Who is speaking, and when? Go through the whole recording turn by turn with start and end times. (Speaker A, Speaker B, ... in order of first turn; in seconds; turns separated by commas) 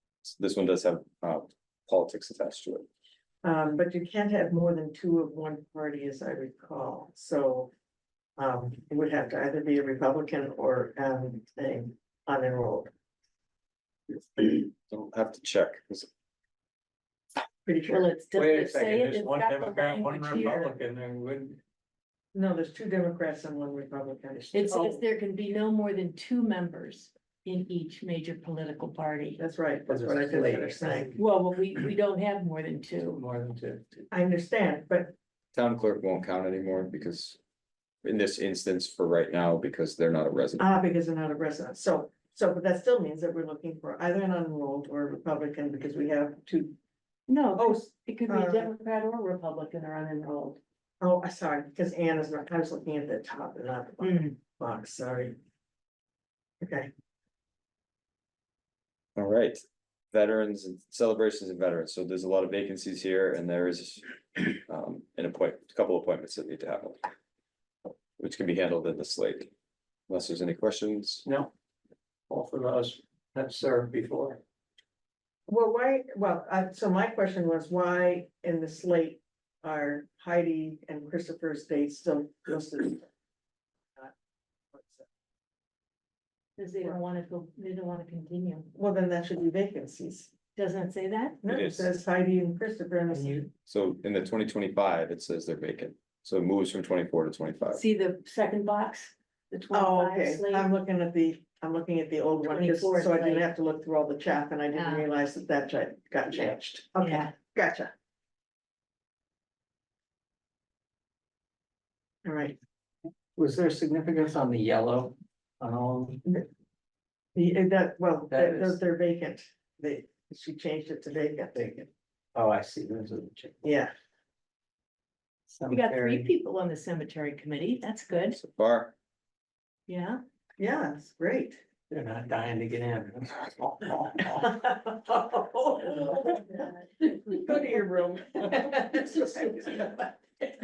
Speaker A: 0.2-2.9, Speaker B: 3.4-7.7, Speaker B: 8.4-12.9, Speaker A: 14.4-16.1, Speaker B: 17.6-18.1, Speaker C: 17.9-20.7, Speaker D: 18.4-21.6, Speaker B: 22.3-25.0, Speaker C: 24.5-29.4, Speaker B: 29.4-31.1, Speaker D: 29.9-31.2, Speaker C: 31.1-33.2, Speaker D: 33.0-34.1, Speaker B: 34.1-35.1, Speaker A: 35.5-37.4, Speaker A: 38.0-40.7, Speaker B: 40.6-46.8, Speaker C: 47.3-50.6, Speaker B: 47.6-48.7, Speaker B: 51.0-55.4, Speaker C: 54.0-54.4, Speaker B: 56.6-56.9, Speaker A: 59.2-67.0, Speaker A: 68.2-69.5, Speaker A: 70.1-71.2, Speaker D: 71.2-71.5, Speaker D: 72.3-74.4, Speaker B: 75.5-83.1, Speaker B: 84.7-85.1, Speaker C: 86.6-88.7, Speaker B: 88.7-90.3, Speaker C: 90.6-91.4, Speaker B: 91.4-93.5, Speaker A: 91.5-91.9, Speaker D: 93.1-93.5, Speaker A: 93.7-97.8, Speaker C: 97.7-100.7, Speaker B: 99.7-107.9, Speaker C: 102.4-103.5, Speaker C: 104.7-105.1, Speaker C: 107.0-107.3, Speaker B: 112.2-112.6, Speaker D: 113.4-116.2, Speaker B: 117.3-121.9, Speaker D: 118.3-118.8, Speaker D: 122.3-123.6, Speaker B: 123.6-123.9, Speaker D: 125.5-126.3, Speaker C: 125.7-128.4, Speaker A: 128.3-128.9, Speaker C: 129.9-130.2, Speaker B: 130.6-131.6, Speaker D: 131.9-134.4, Speaker B: 134.3-140.5